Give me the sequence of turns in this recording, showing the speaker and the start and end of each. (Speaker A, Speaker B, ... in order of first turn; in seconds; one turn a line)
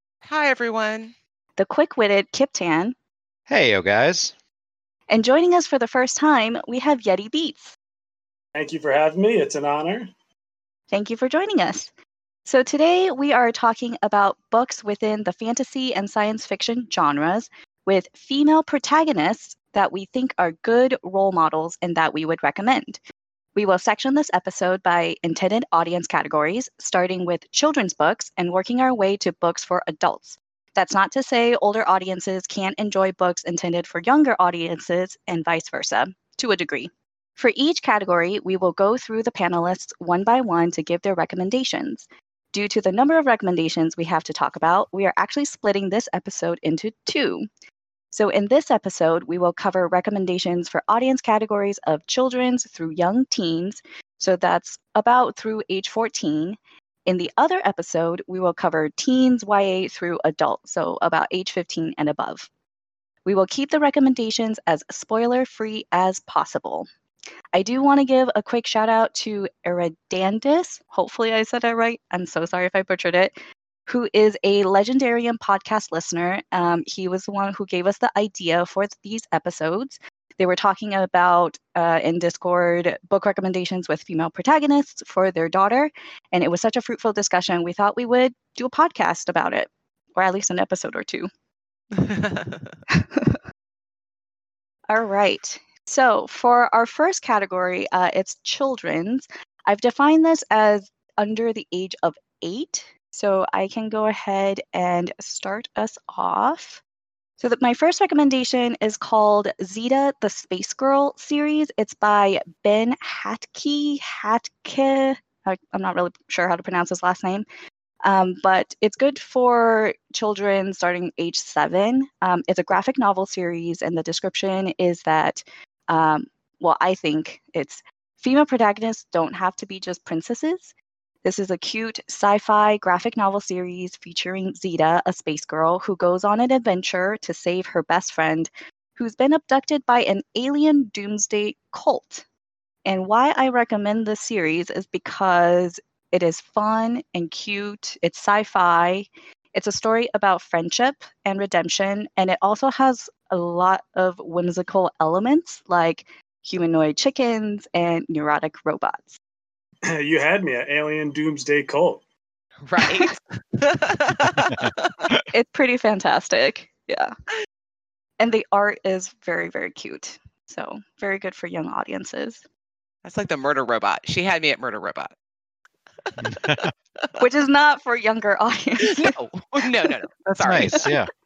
Speaker A: 0.2-1.1
Speaker B: 1.6-2.9
Speaker C: 3.5-4.3
Speaker B: 5.1-7.7
Speaker D: 8.5-10.1
Speaker B: 10.9-11.9
Speaker B: 12.4-23.0
Speaker B: 23.5-47.5
Speaker B: 48.1-62.5
Speaker B: 63.2-66.9
Speaker B: 67.5-91.3
Speaker A: 91.9-92.8
Speaker B: 92.9-93.4
Speaker B: 94.9-106.8
Speaker B: 107.4-117.4
Speaker B: 118.0-142.2
Speaker B: 142.8-159.2
Speaker D: 159.8-162.0
Speaker A: 162.6-165.1
Speaker B: 162.8-163.1
Speaker C: 164.5-165.2
Speaker B: 165.3-167.1
Speaker B: 168.2-172.4
Speaker A: 173.0-175.1
Speaker A: 176.0-177.1
Speaker C: 176.2-176.7
Speaker B: 177.2-179.1
Speaker A: 178.8-180.9
Speaker C: 180.4-181.1